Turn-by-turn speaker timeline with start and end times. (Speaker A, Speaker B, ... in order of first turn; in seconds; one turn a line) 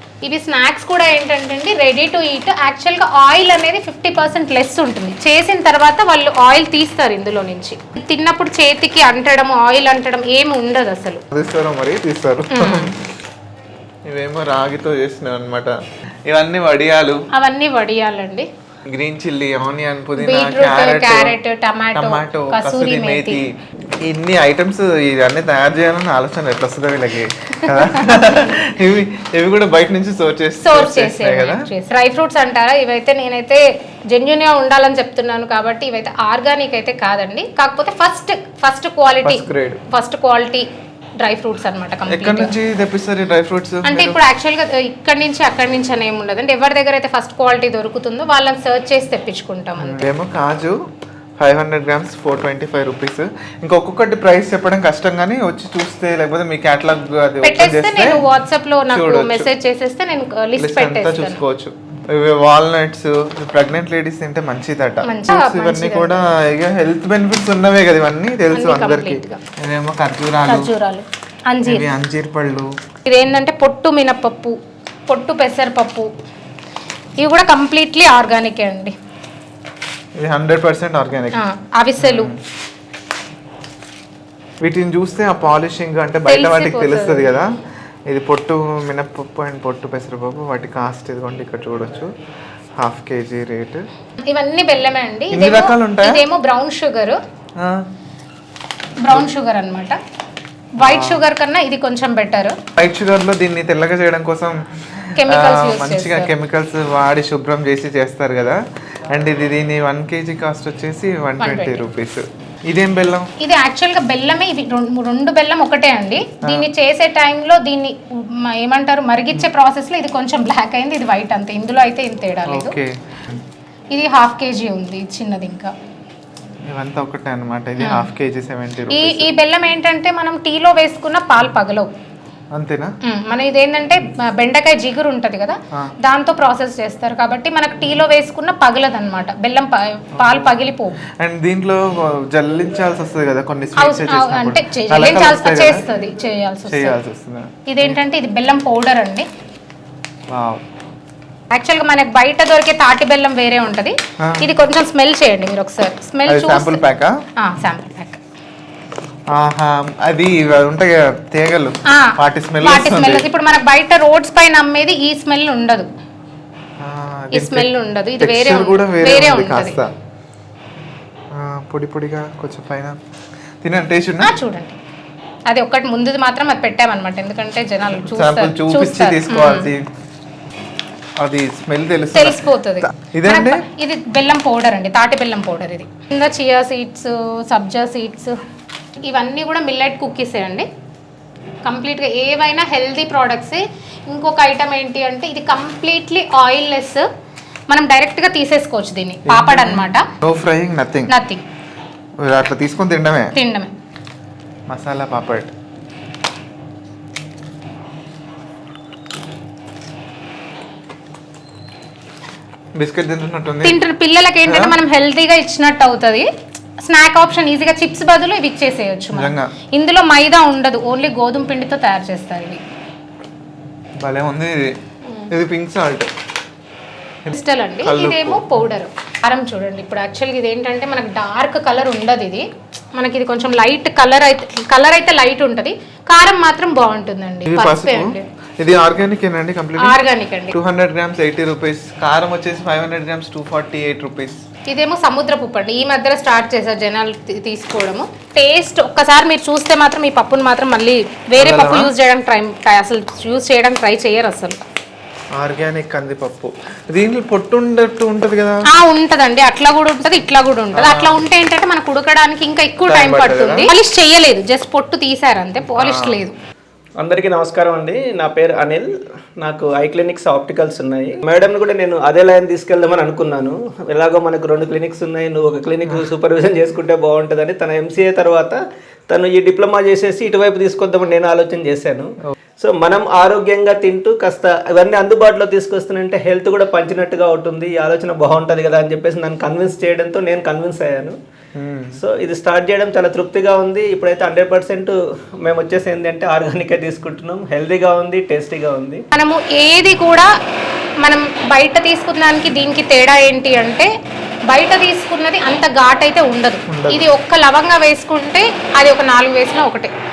Speaker A: 0.2-11.2
Speaker B: 11.3-13.1
Speaker A: 12.5-12.9
Speaker B: 14.1-15.8
Speaker B: 16.3-17.2
Speaker A: 17.3-18.5
Speaker B: 18.9-21.4
Speaker A: 20.2-23.4
Speaker B: 21.9-23.5
Speaker B: 24.0-31.6
Speaker A: 27.6-28.3
Speaker A: 30.6-40.7
Speaker B: 39.2-39.8
Speaker A: 41.2-42.5
Speaker B: 42.1-44.2
Speaker A: 43.8-50.1
Speaker B: 49.8-50.8
Speaker B: 51.4-58.3
Speaker A: 57.4-61.4
Speaker B: 58.9-59.5
Speaker B: 60.6-70.7
Speaker A: 65.0-66.3
Speaker A: 68.5-69.4
Speaker A: 70.5-71.9
Speaker B: 71.7-72.7
Speaker A: 73.1-74.6
Speaker A: 75.1-76.1
Speaker A: 77.2-79.0
Speaker B: 80.2-81.4
Speaker A: 81.3-82.3
Speaker B: 82.0-82.4
Speaker B: 84.6-87.5
Speaker A: 86.3-87.3
Speaker B: 88.1-92.1
Speaker B: 92.8-93.9
Speaker A: 94.2-97.2
Speaker B: 95.3-96.3
Speaker B: 97.6-97.9
Speaker A: 99.0-100.0
Speaker A: 100.8-102.6
Speaker B: 100.8-101.2
Speaker B: 102.8-113.3
Speaker A: 105.2-106.3
Speaker A: 111.4-111.8
Speaker A: 113.4-122.8
Speaker B: 116.4-116.7
Speaker B: 122.5-123.4
Speaker A: 123.9-125.7
Speaker B: 126.7-129.3
Speaker A: 127.8-128.1
Speaker A: 128.9-131.9
Speaker B: 132.5-132.9
Speaker A: 133.0-141.0
Speaker B: 140.2-140.5
Speaker B: 141.1-145.8
Speaker A: 143.8-147.0
Speaker B: 146.7-147.9
Speaker A: 147.7-149.3
Speaker B: 150.3-150.6
Speaker A: 151.5-156.8
Speaker B: 154.2-154.5
Speaker B: 156.3-157.2
Speaker A: 157.4-158.2
Speaker B: 159.3-163.3
Speaker A: 161.9-165.9
Speaker B: 166.8-169.9
Speaker A: 167.3-169.8
Speaker B: 171.3-173.0
Speaker B: 173.6-174.4
Speaker A: 174.2-174.8
Speaker A: 175.5-179.7
Speaker B: 178.0-179.9
Speaker B: 181.2-183.7
Speaker A: 182.1-188.4
Speaker A: 189.0-190.7
Speaker A: 191.7-197.1
Speaker A: 197.7-200.1
Speaker B: 199.3-201.1
Speaker A: 201.1-201.4
Speaker B: 202.2-203.3
Speaker A: 203.3-203.8
Speaker B: 204.7-205.5
Speaker B: 212.8-213.8
Speaker A: 213.6-222.6
Speaker B: 214.5-214.8
Speaker B: 219.1-219.5
Speaker B: 224.0-224.8
Speaker B: 225.3-226.1
Speaker B: 227.3-228.6
Speaker A: 227.3-238.3
Speaker B: 237.5-240.0
Speaker A: 239.8-240.6
Speaker B: 240.5-244.4
Speaker A: 244.7-254.6
Speaker B: 251.4-251.9
Speaker B: 255.3-258.6
Speaker A: 258.7-266.4
Speaker B: 260.7-261.2
Speaker B: 262.9-263.7
Speaker B: 265.7-266.2
Speaker C: 267.0-268.9
Speaker C: 269.4-278.6
Speaker C: 279.1-291.2
Speaker B: 291.6-292.0
Speaker C: 291.9-299.1
Speaker A: 299.1-300.3
Speaker A: 301.0-303.9
Speaker A: 304.5-309.9
Speaker B: 306.7-307.1